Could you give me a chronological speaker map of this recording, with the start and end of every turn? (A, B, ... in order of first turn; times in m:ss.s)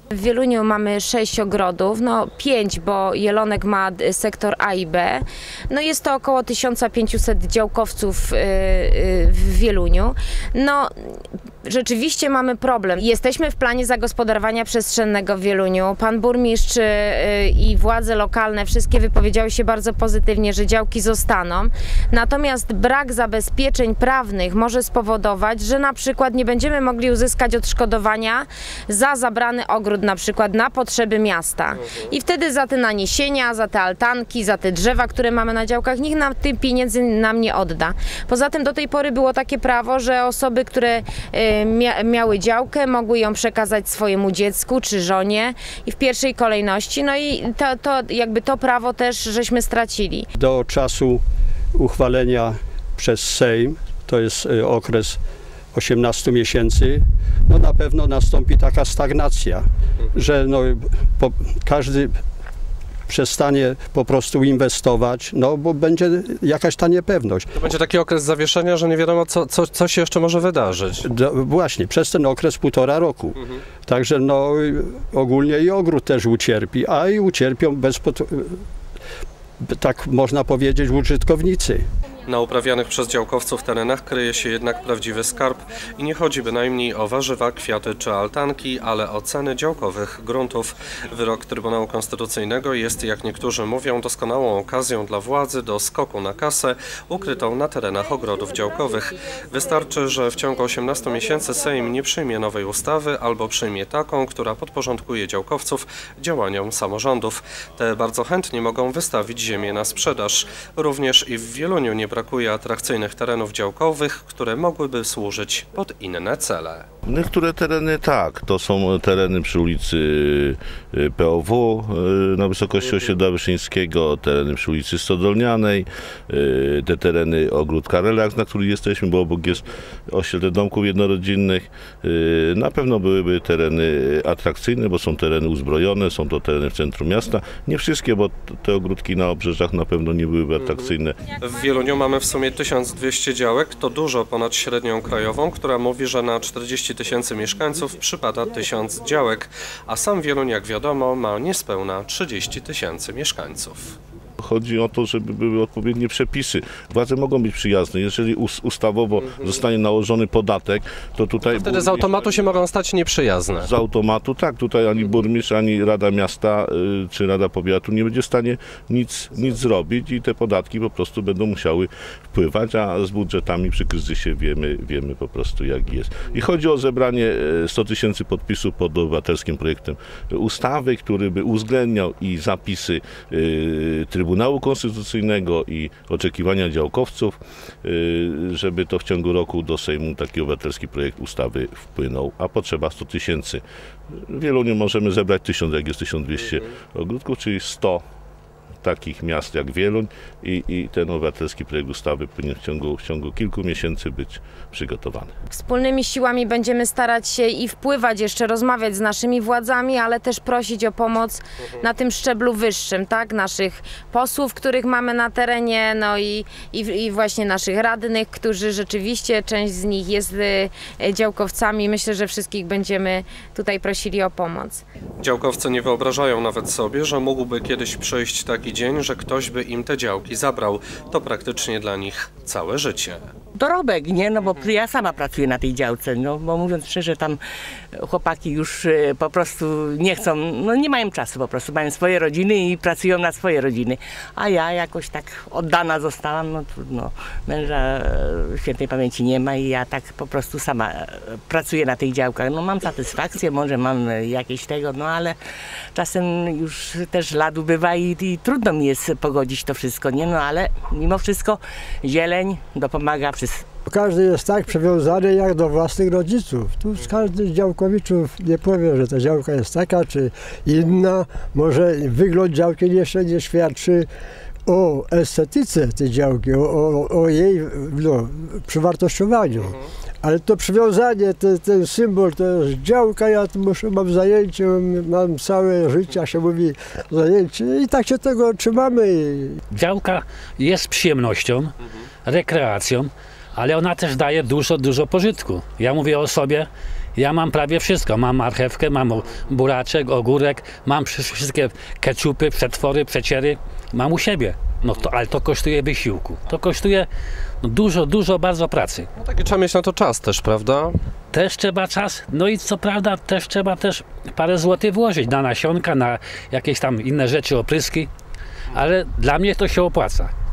0:00.1-0:50.3 A
0:50.4-0:51.2 B
0:51.7-0:55.2 B
0:55.7-1:02.2 B
1:03.1-1:07.5 B
1:07.5-1:11.1 C
1:11.0-1:18.6 B
1:19.7-1:21.8 B
1:22.2-1:56.8 C
1:57.0-2:21.2 D
2:20.6-2:33.9 C
2:34.4-2:42.2 D
2:39.2-2:39.6 C
2:41.5-2:43.7 C
2:43.5-3:13.6 D
3:14.1-3:18.0 D
3:18.8-3:25.3 D
3:25.5-3:44.8 A
3:45.2-3:53.3 C
3:53.5-3:57.4 E
3:58.0-4:15.4 E
4:15.9-4:23.6 E
4:23.9-4:34.1 F
4:34.7-4:49.6 F
4:49.7-4:51.7 G
4:52.2-5:07.1 G
5:07.6-5:09.1 G
5:09.2-5:10.9 C
5:11.3-5:18.1 G
5:18.7-5:20.3 G